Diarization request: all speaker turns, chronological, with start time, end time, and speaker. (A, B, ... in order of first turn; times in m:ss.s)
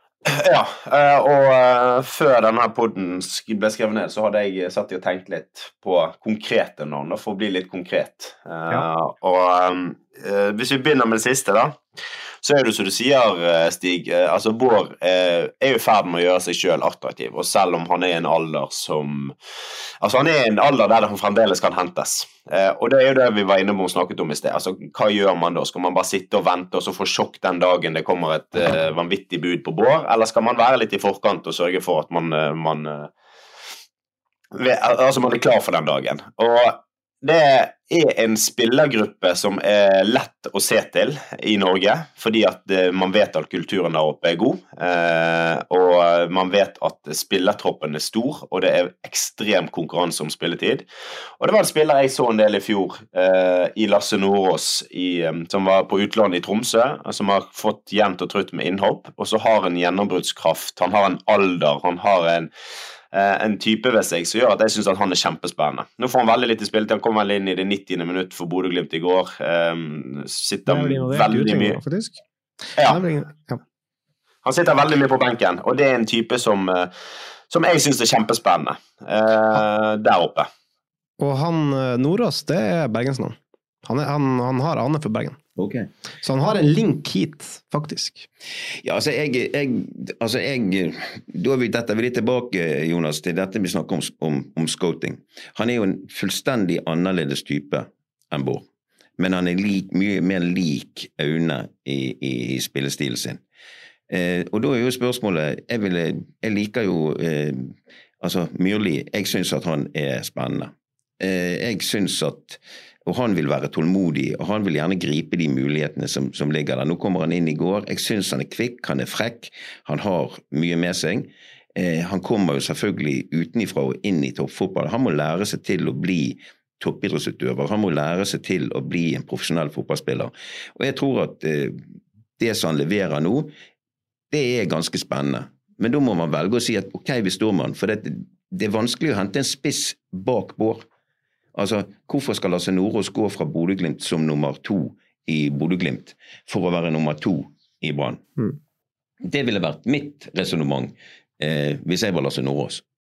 0:00.2-0:11.8 A
0:12.4-0:19.3 A
0:20.0-0:33.1 A
0:34.5-0:50.8 A
0:51.4-1:02.5 A
1:03.1-1:11.8 A
1:10.7-1:12.2 B
1:12.8-1:13.6 B
1:14.4-1:16.9 A
1:17.5-1:20.5 A
1:21.2-1:25.4 B
1:25.6-1:25.9 C
1:26.2-1:28.3 B
1:28.8-1:38.6 C
1:39.2-1:43.4 C
1:44.1-2:11.8 C
2:12.4-2:13.5 C
2:14.3-2:20.8 C
2:21.5-2:28.2 C
2:29.2-2:32.8 C